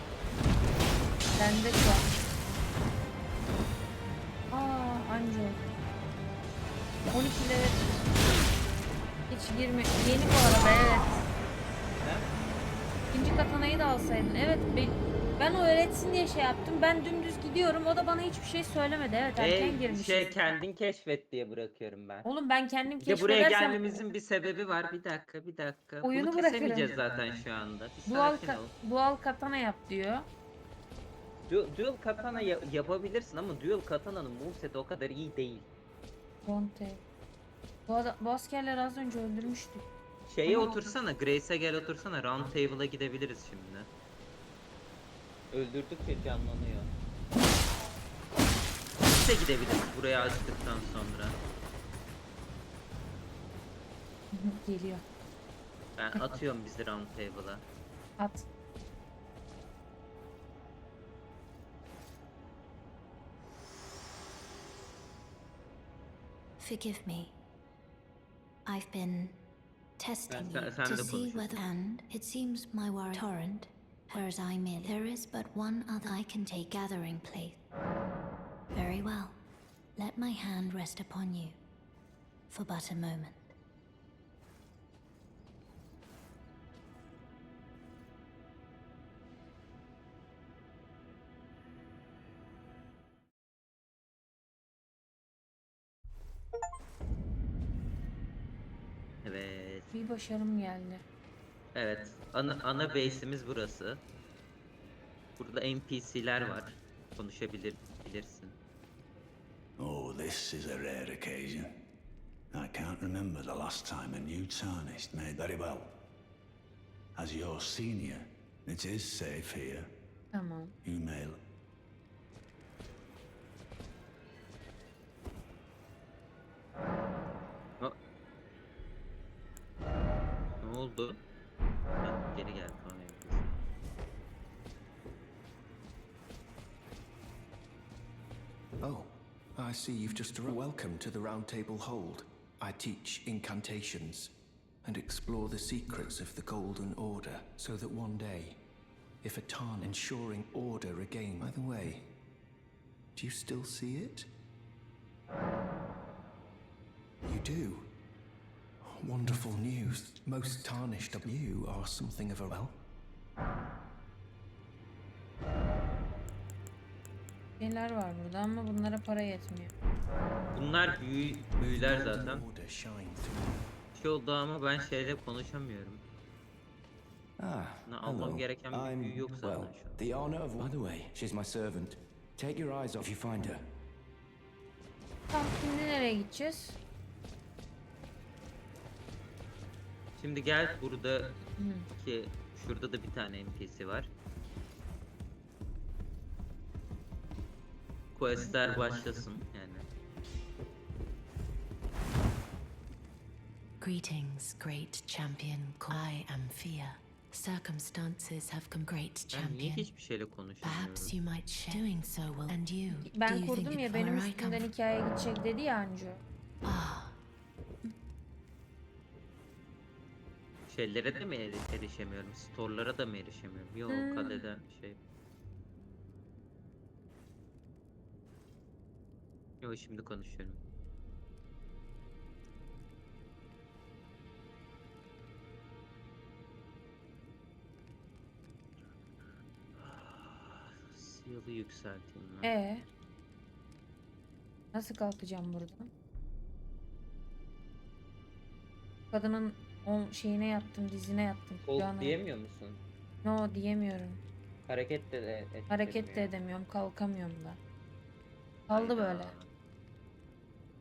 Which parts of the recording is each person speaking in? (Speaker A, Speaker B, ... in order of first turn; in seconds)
Speaker A: 1.4-2.1, 4.5-5.6, 7.1-8.0, 9.3-11.3, 13.1-20.5, 22.2-24.1, 26.0-26.9, 28.1-30.3, 36.5-37.0, 37.9-39.9, 40.5-40.8, 54.3-55.0, 58.2-58.5, 99.9-101.0, 120.3-120.7, 167.6-169.7, 185.3-186.8, 191.6-191.9, 213.0-216.2, 223.9-224.4, 242.4-242.9, 244.7-245.9, 249.1-252.2, 253.2-254.2, 255.7-257.6, 258.7-259.3
Speaker B: 12.0-12.3, 19.4-22.3, 23.0-28.7, 31.5-35.7, 40.3-43.9, 45.5-46.9, 49.0-51.4, 56.0-57.6, 70.3-71.6, 99.2-99.9, 101.7-104.0, 105.4-108.5, 130.6-131.2, 132.0-133.6, 170.5-172.4, 173.9-176.0, 177.9-180.0, 190.2-191.4, 192.0-194.1, 198.1-199.9, 209.3-211.1, 220.7-225.0, 229.6-230.6, 239.8-242.5, 251.7-252.8, 254.7-256.3, 258.7-259.5
Speaker C: 66.6-67.4, 68.7-69.4, 70.0-77.6, 78.7-79.4, 80.0-81.6, 82.5-83.5
Speaker D: 109.8-111.7, 112.5-116.0, 117.2-119.9, 120.8-121.4
Speaker E: 138.8-148.6, 149.2-152.1, 153.1-154.3, 157.2-157.9, 158.8-162.8, 171.6-173.6
Speaker F: 177.4-183.7
Speaker G: 203.8-209.9, 210.6-214.7, 216.6-217.2